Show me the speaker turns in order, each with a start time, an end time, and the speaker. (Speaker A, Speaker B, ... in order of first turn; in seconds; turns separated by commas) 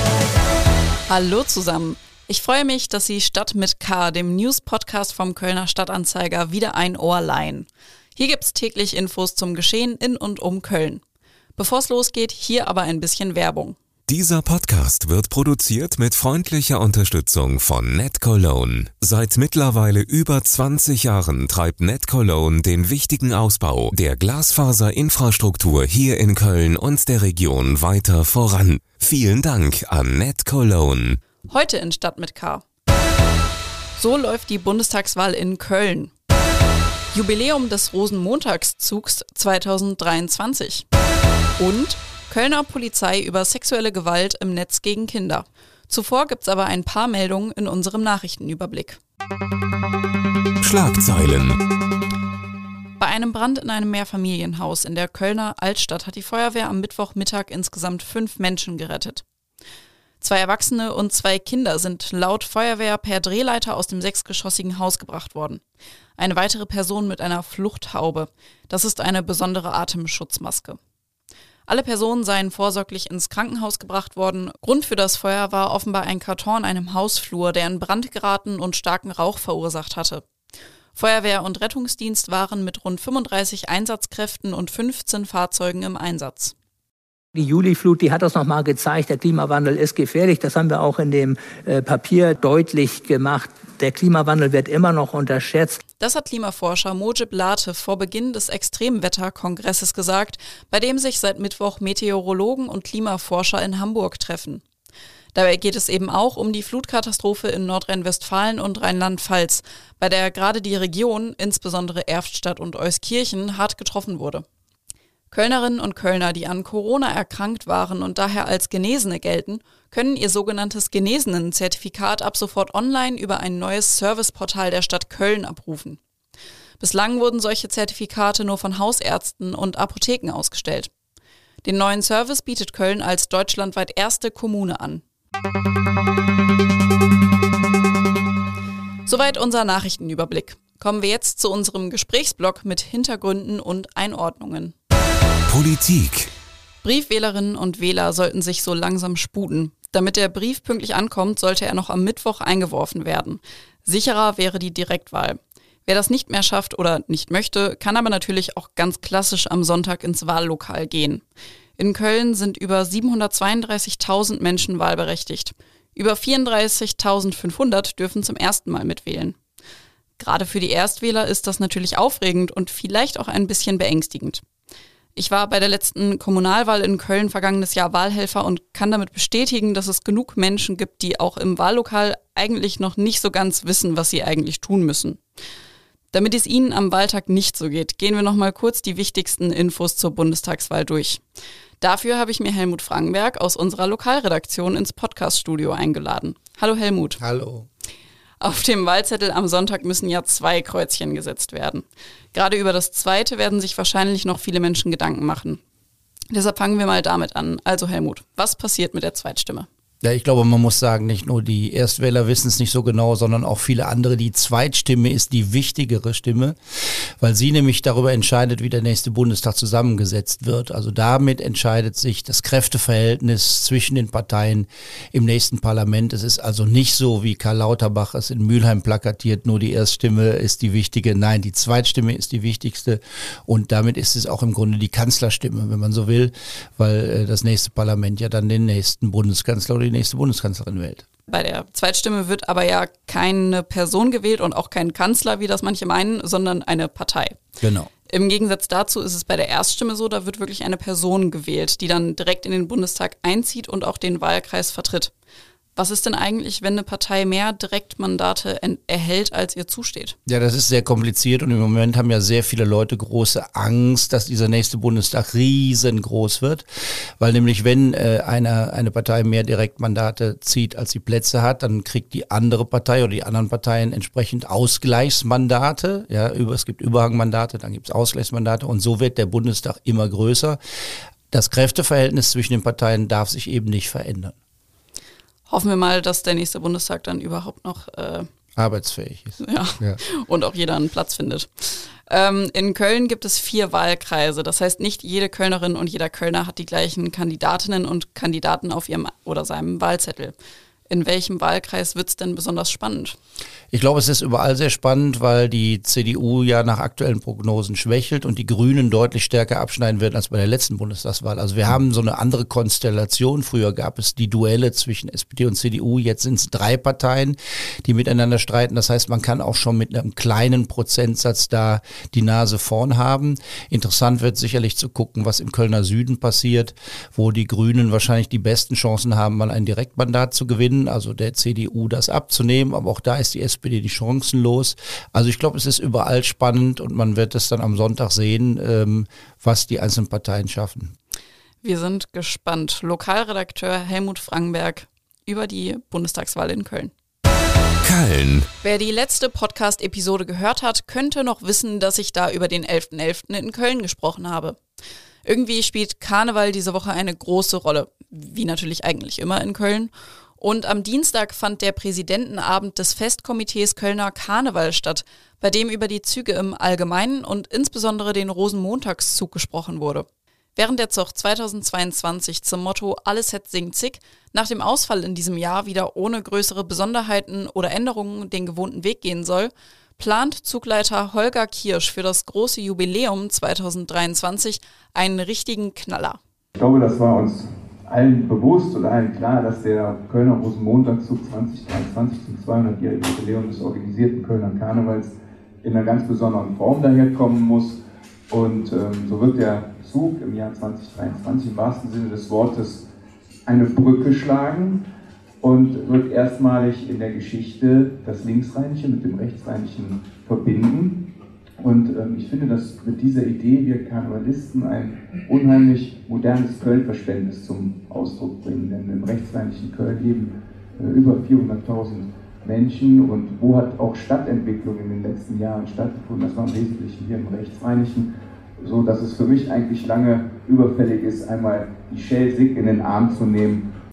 Speaker A: 1.1-11.0, Speaker A: 11.6-13.8, Speaker B: 14.1-31.2, Speaker A: 31.5-32.6, Speaker A: 33.9-36.1, Speaker A: 37.1-40.9, Speaker A: 41.6-49.0, Speaker B: 50.6-51.6, Speaker A: 53.0-59.2, Speaker A: 60.2-65.6, Speaker A: 66.2-70.8, Speaker A: 71.7-80.2, Speaker A: 80.9-86.5, Speaker C: 87.3-95.8, Speaker A: 96.0-104.6, Speaker A: 105.3-114.4, Speaker A: 115.3-126.0, Speaker A: 126.8-130.9, Speaker A: 131.6-135.0, Speaker A: 139.1-144.7, Speaker B: 145.5-146.3, Speaker A: 146.8-161.2, Speaker A: 161.8-169.4, Speaker A: 170.2-174.4, Speaker A: 175.2-185.2, Speaker A: 186.1-191.2, Speaker A: 191.8-197.2, Speaker D: 197.2-197.7, Speaker A: 198.4-205.6, Speaker A: 206.3-209.7, Speaker D: 210.0-216.6, Speaker D: 217.2-241.0, Speaker A: 241.3-247.4, Speaker D: 247.6-247.9, Speaker A: 248.1-255.1, Speaker A: 255.8-260.1, Speaker D: 260.3-266.6, Speaker D: 267.2-280.6, Speaker D: 281.3-284.3, Speaker A: 285.5-288.2, Speaker D: 288.6-290.0, Speaker A: 289.4-300.4, Speaker A: 300.9-303.1, Speaker D: 303.7-340.9, Speaker A: 341.6-346.9, Speaker B: 347.8-348.5, Speaker A: 348.6-354.6, Speaker A: 355.2-386.2, Speaker E: 386.6-397.8, Speaker E: 398.3-402.8, Speaker E: 403.5-404.8, Speaker E: 405.4-411.0, Speaker E: 411.6-428.1, Speaker E: 428.6-433.6